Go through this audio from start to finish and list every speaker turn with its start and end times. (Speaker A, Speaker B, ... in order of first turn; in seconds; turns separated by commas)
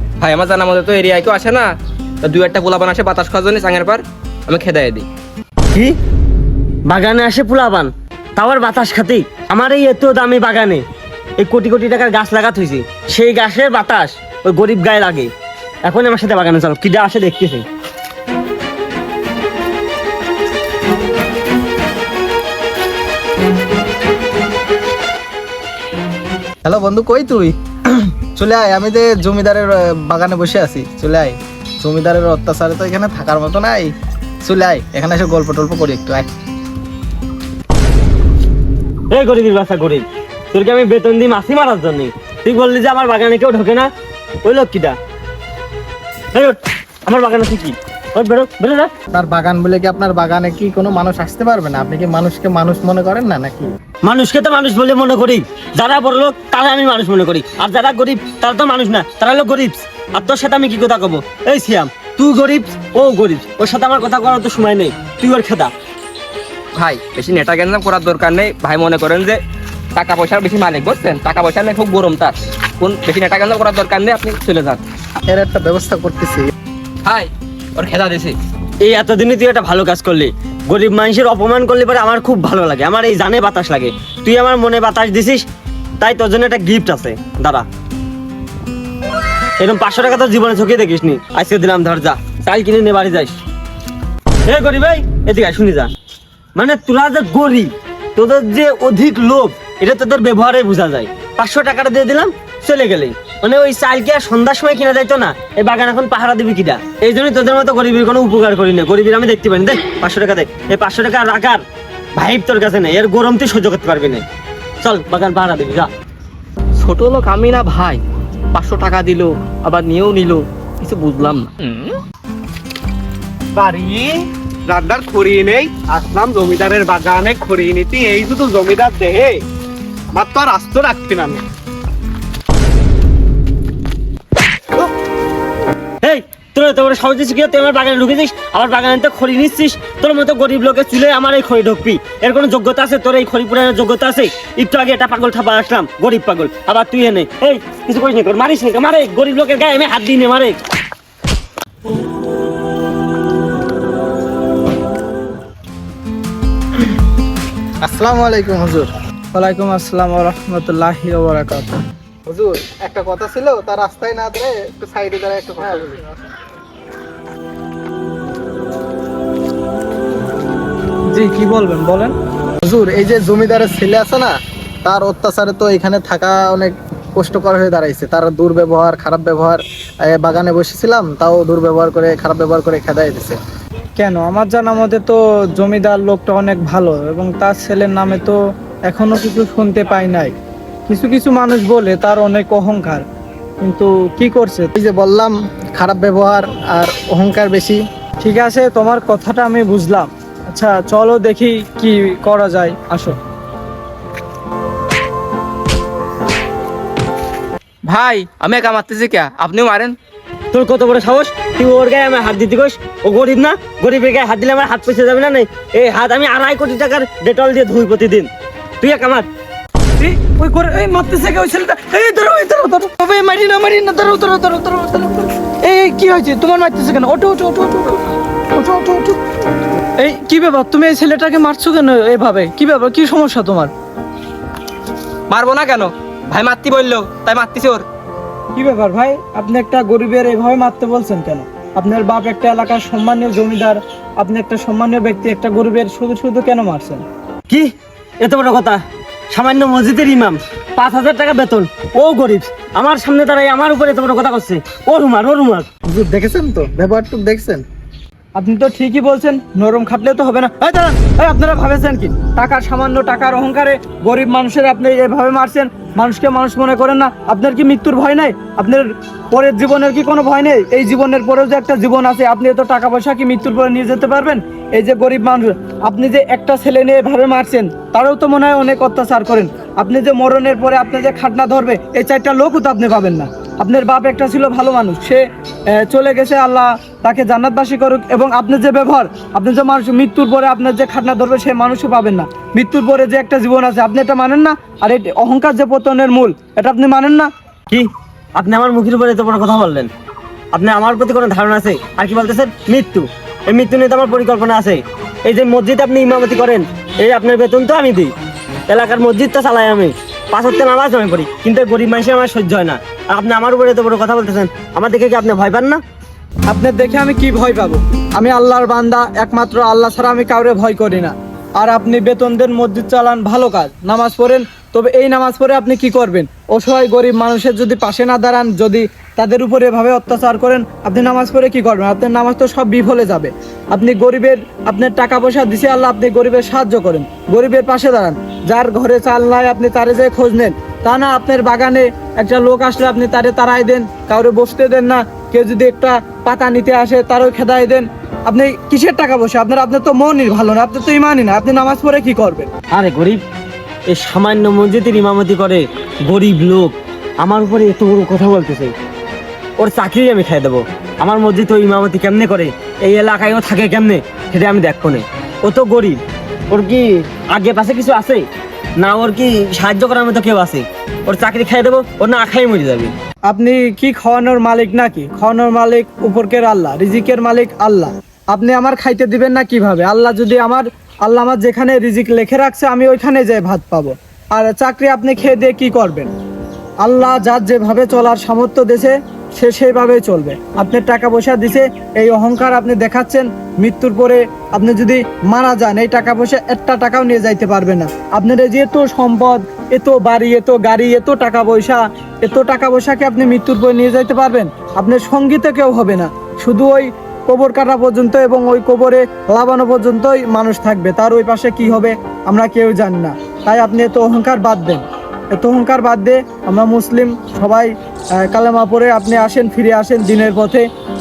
Speaker A: 0.2-5.1, Speaker B: 6.9-10.8, Speaker B: 11.4-15.3, Speaker B: 15.8-17.6, Speaker C: 26.6-33.9, Speaker C: 34.5-36.3, Speaker B: 39.1-43.9, Speaker B: 44.5-45.0, Speaker B: 46.3-48.9, Speaker C: 49.1-53.7, Speaker B: 54.0-65.7, Speaker A: 66.8-69.4, Speaker A: 70.0-74.8, Speaker C: 75.3-76.5, Speaker A: 77.0-78.4, Speaker B: 78.8-85.5, Speaker B: 86.0-87.7, Speaker B: 89.6-93.4, Speaker B: 94.5-95.9, Speaker B: 96.6-111.6, Speaker B: 112.2-114.2, Speaker B: 114.8-115.9, Speaker A: 116.8-118.0, Speaker A: 118.5-121.5, Speaker D: 123.6-129.4, Speaker D: 130.2-131.4, Speaker B: 136.0-150.6, Speaker C: 157.8-158.9, Speaker E: 159.3-161.8, Speaker C: 162.3-166.1, Speaker E: 171.1-172.2, Speaker C: 172.6-183.4, Speaker E: 184.0-190.3, Speaker E: 190.9-193.1, Speaker E: 193.6-194.8, Speaker C: 194.8-197.8, Speaker E: 198.2-203.2, Speaker A: 207.9-210.0, Speaker B: 210.5-218.3, Speaker B: 218.8-219.3, Speaker E: 220.0-229.2, Speaker E: 230.0-233.7, Speaker A: 235.3-237.8, Speaker E: 238.5-247.0, Speaker B: 248.2-248.8, Speaker B: 249.3-255.7, Speaker C: 255.9-257.6, Speaker E: 258.4-297.3, Speaker B: 297.7-299.9, Speaker B: 300.5-308.1, Speaker B: 308.7-315.8, Speaker E: 316.5-352.5, Speaker B: 352.7-353.2, Speaker B: 353.9-358.7, Speaker B: 359.6-366.0, Speaker B: 366.5-368.2, Speaker B: 368.8-372.9, Speaker E: 373.3-386.1, Speaker E: 386.8-420.7